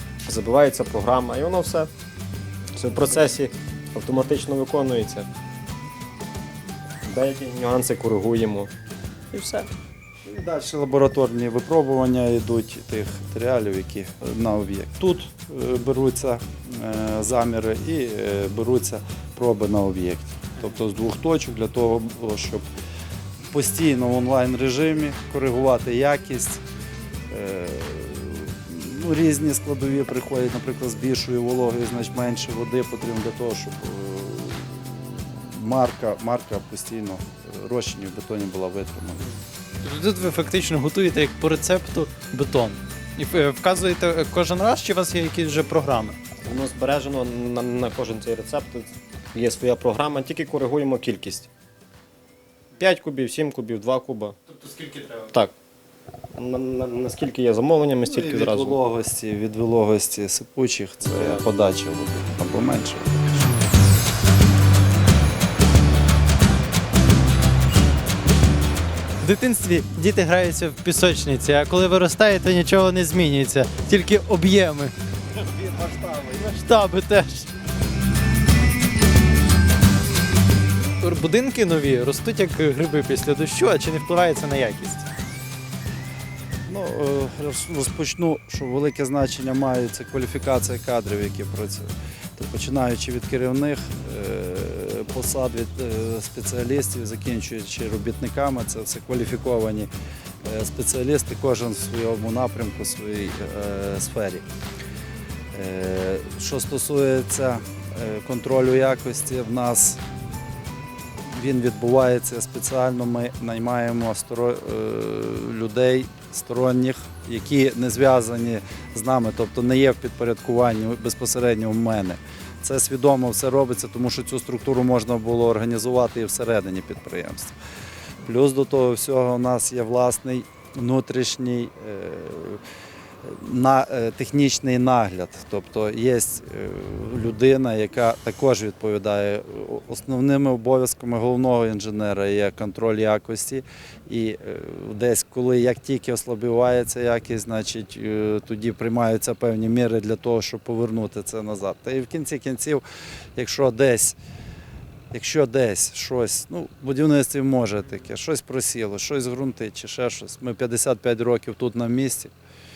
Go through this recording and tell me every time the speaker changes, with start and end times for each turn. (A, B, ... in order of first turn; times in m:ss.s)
0:00.2-0:01.9 A
0:02.7-0:05.3 A
0:07.0-0:08.7 A
0:09.3-0:09.7 A
0:10.2-0:22.6 B
0:23.5-0:26.6 B
0:27.3-0:39.3 B
0:39.8-0:46.2 C
0:46.4-0:51.5 A
0:52.8-0:54.4 A
0:54.6-0:55.3 C
0:56.3-0:58.8 A
0:58.0-1:03.5 B
1:03.4-1:03.7 C
1:09.2-1:14.9 C
1:15.5-1:16.4 B
1:16.2-1:17.5 C
1:21.0-1:25.0 C
1:26.7-1:39.9 B
1:40.4-1:44.4 B
1:45.5-1:50.0 B
1:51.3-2:07.6 B
2:08.2-2:12.6 B
2:13.2-2:32.8 B
2:33.4-2:34.2 B
2:35.1-2:42.3 B